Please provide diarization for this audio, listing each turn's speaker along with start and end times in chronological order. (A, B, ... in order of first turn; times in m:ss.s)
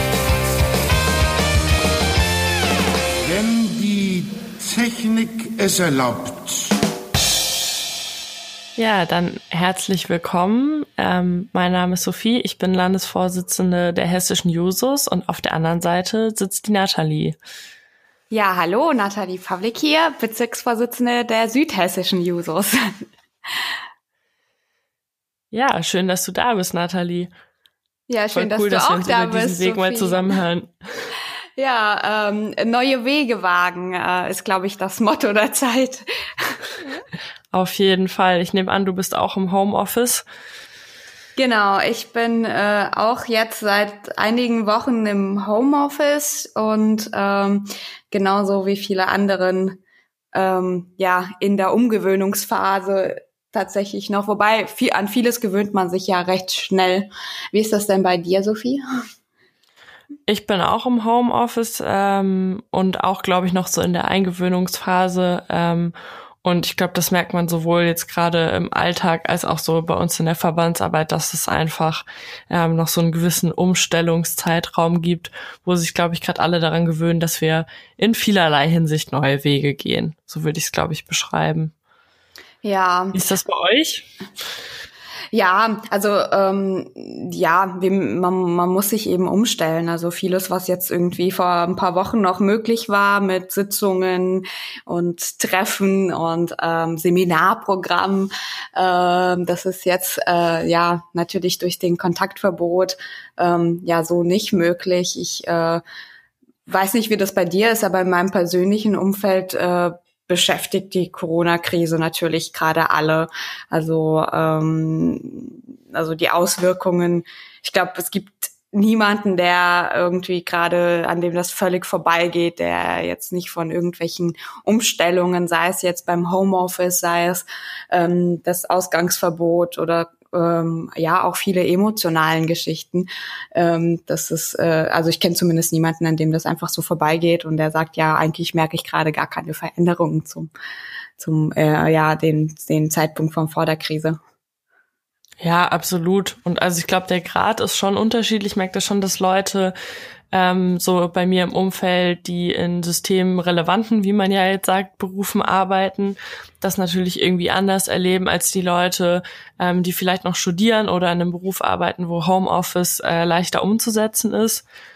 0:03.2-0:06.8 A
0:08.8-0:17.4 B
0:18.3-0:22.8 C
0:23.5-0:23.7 C
0:25.5-0:27.3 B
0:28.1-0:30.4 C
0:28.3-0:30.7 B
0:31.6-0:37.0 C
0:37.5-0:40.2 B
0:41.4-0:49.8 C
0:50.3-0:58.8 C
1:00.3-1:05.9 B
1:06.4-1:21.7 B
1:22.6-1:23.2 C
1:23.1-1:24.1 B
1:25.3-1:45.8 C
1:46.7-2:20.5 C
2:21.2-2:24.2 C
2:25.4-2:29.7 B
2:30.3-2:44.6 B